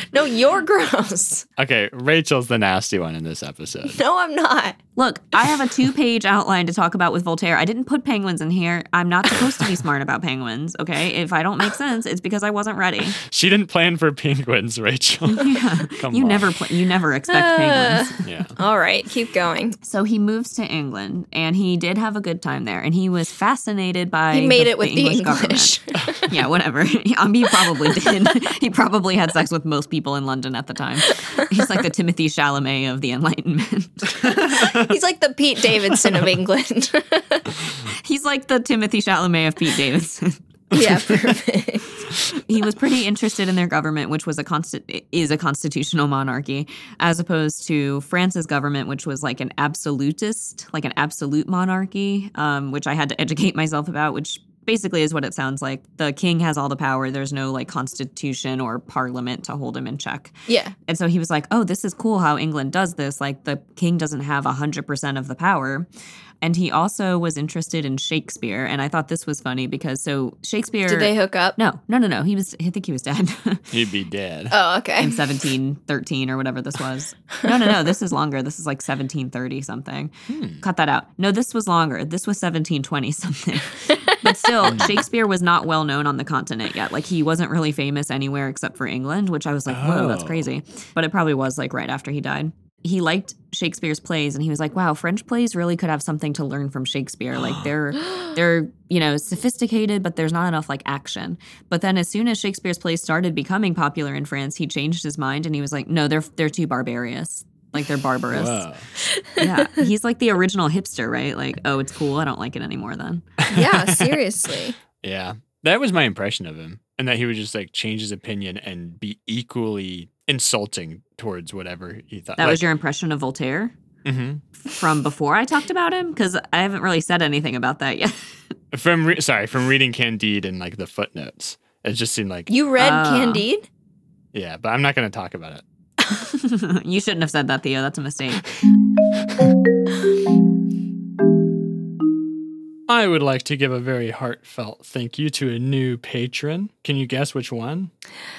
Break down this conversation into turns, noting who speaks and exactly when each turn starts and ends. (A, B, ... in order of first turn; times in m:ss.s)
0:00.1-0:01.5 A
0:01.6-0:04.0 B
0:04.0-0:04.8 A
0:05.0-0:13.2 C
0:13.2-0:16.5 B
0:15.3-0:18.2 C
0:17.3-0:19.8 A
0:18.2-0:18.6 B
0:19.8-0:34.7 C
0:24.3-0:26.2 A
0:34.5-0:37.5 A
0:37.8-0:40.8 C
0:40.7-0:41.9 A
0:42.2-1:00.3 C
1:00.5-1:00.7 A
1:00.9-1:05.9 C
1:06.4-1:13.7 C
1:10.9-1:11.6 A
1:13.7-1:14.6 B
1:14.5-1:15.2 A
1:15.0-1:48.6 C
1:20.3-1:20.6 B
1:24.6-1:25.0 B
1:29.7-1:30.5 B
1:48.3-1:48.9 B
1:49.2-1:49.7 A
1:49.4-1:53.3 C
1:53.4-1:54.2 B
1:53.5-1:54.8 A
1:55.0-2:02.6 B
2:02.4-2:03.8 C
2:04.0-2:04.4 B
2:04.6-2:08.5 C
2:08.7-2:12.5 B
2:12.5-2:13.6 A
2:12.8-2:13.5 C
2:14.3-2:15.6 B
2:16.2-2:18.5 C
2:22.9-2:27.9 B